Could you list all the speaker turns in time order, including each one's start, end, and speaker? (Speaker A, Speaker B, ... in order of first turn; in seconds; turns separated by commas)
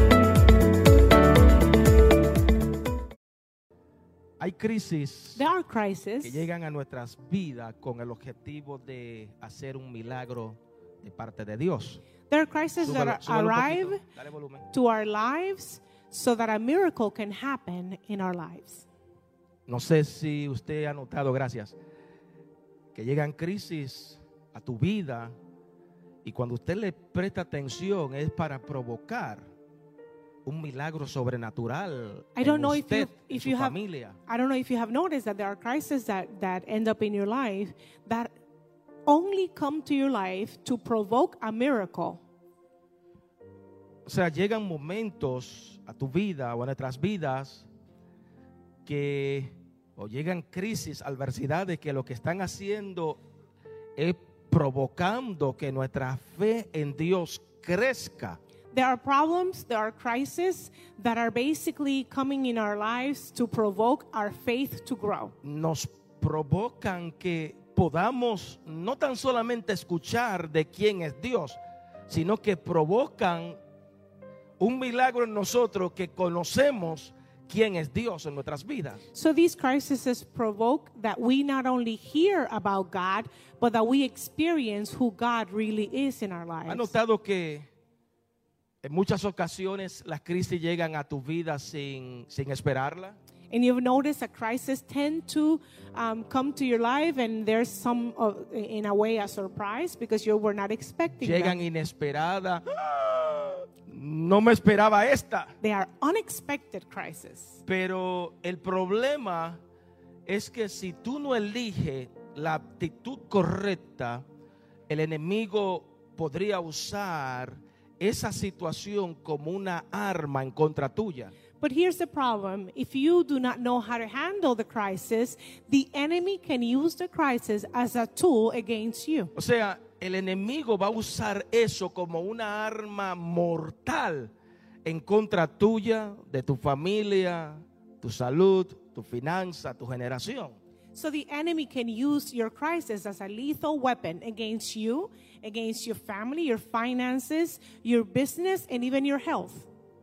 Speaker A: 4.4-5.4, Speaker B: 5.4-6.5, Speaker A: 6.2-12.0, Speaker B: 12.3-14.0, Speaker A: 12.8-14.7, Speaker B: 14.7-18.9, Speaker A: 19.7-21.8, Speaker A: 22.9-25.4, Speaker A: 26.2-29.5, Speaker A: 30.4-34.2, Speaker B: 32.4-38.3, Speaker B: 39.1-42.2, Speaker A: 44.1-47.7, Speaker A: 48.9-53.2, Speaker A: 54.0-58.4, Speaker B: 58.7-65.3, Speaker A: 65.4-73.6, Speaker A: 74.6-79.0, Speaker B: 79.1-86.9, Speaker A: 86.7-87.7, Speaker A: 88.8-93.2, Speaker B: 93.5-101.6, Speaker A: 101.2-105.5, Speaker B: 105.6-107.6, Speaker A: 107.7-109.6, Speaker A: 110.3-114.2, Speaker A: 114.9-121.3, Speaker B: 121.6-129.3, Speaker A: 129.3-134.3, Speaker A: 134.8-140.6, Speaker B: 140.9-149.7